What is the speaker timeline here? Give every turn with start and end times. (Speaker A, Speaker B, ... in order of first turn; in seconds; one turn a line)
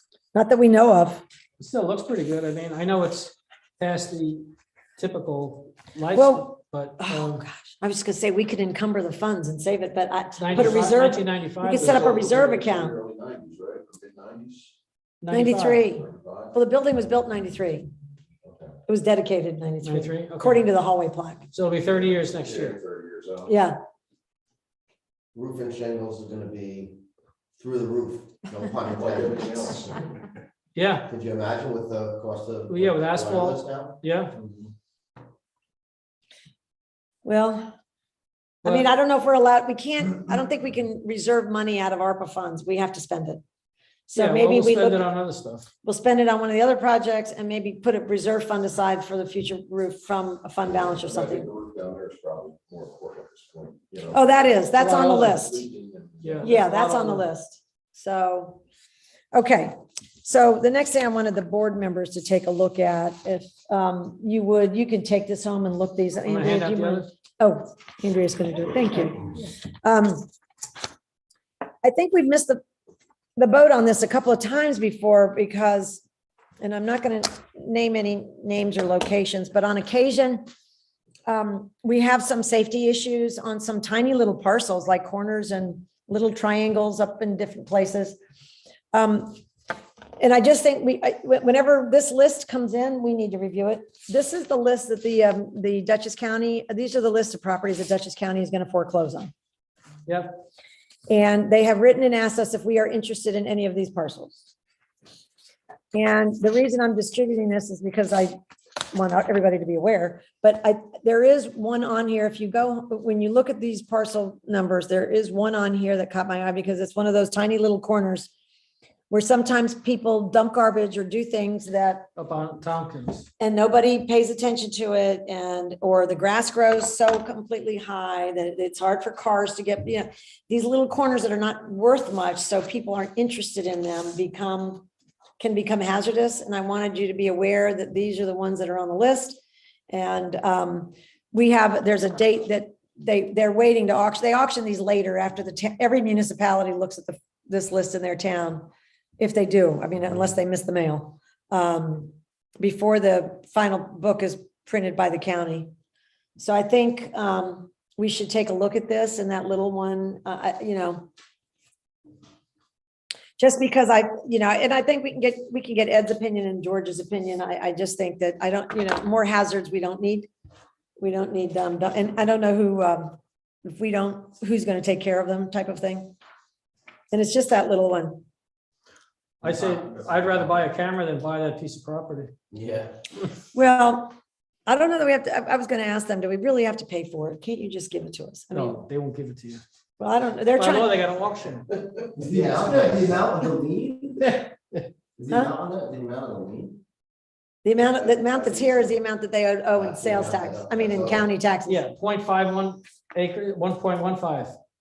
Speaker A: 0.3-1.2
Speaker B: 1.6-4.5
Speaker B: 5.0-7.4
Speaker A: 6.1-12.9
Speaker B: 10.4-12.4
Speaker C: 10.5-10.8
Speaker C: 11.7-14.7
Speaker B: 15.2-15.9
Speaker A: 15.3-17.9
Speaker C: 15.9-16.5
Speaker C: 18.4-18.7
Speaker A: 18.9-21.5
Speaker B: 19.8-20.6
Speaker B: 21.5-22.8
Speaker C: 21.8-23.5
Speaker A: 23.5-23.8
Speaker D: 25.3-27.0
Speaker D: 27.6-29.9
Speaker C: 28.9-30.3
Speaker B: 30.7-31.1
Speaker D: 31.1-34.0
Speaker B: 32.7-34.3
Speaker A: 37.2-37.7
Speaker A: 38.6-43.4
Speaker A: 44.1-45.1
Speaker B: 44.1-45.7
Speaker A: 45.8-51.5
Speaker C: 50.6-56.6
Speaker A: 54.1-55.6
Speaker B: 54.8-55.5
Speaker B: 56.2-57.2
Speaker A: 56.4-58.6
Speaker A: 59.3-70.3
Speaker B: 66.2-67.1
Speaker A: 71.8-72.6
Speaker A: 73.3-76.0
Speaker A: 76.6-80.4
Speaker A: 81.3-88.2
Speaker A: 88.9-89.4
Speaker A: 90.2-99.3
Speaker A: 101.1-104.5
Speaker A: 105.9-108.3
Speaker A: 108.9-118.3
Speaker A: 119.1-122.1
Speaker B: 122.2-123.3
Speaker A: 123.4-134.9
Speaker A: 135.4-139.4
Speaker A: 139.9-155.7
Speaker A: 156.4-161.1
Speaker A: 163.4-170.3
Speaker A: 171.0-176.1
Speaker A: 177.1-178.2
Speaker B: 179.4-182.3
Speaker C: 179.4-180.5
Speaker D: 182.5-183.0
Speaker A: 183.5-188.8
Speaker B: 188.5-189.6
Speaker A: 190.0-190.9
Speaker B: 190.5-191.7
Speaker D: 192.2-194.3
Speaker C: 192.4-192.8
Speaker B: 194.2-194.8
Speaker D: 195.2-196.8
Speaker A: 197.6-201.8
Speaker C: 198.4-198.7
Speaker D: 199.7-201.3
Speaker B: 201.7-204.5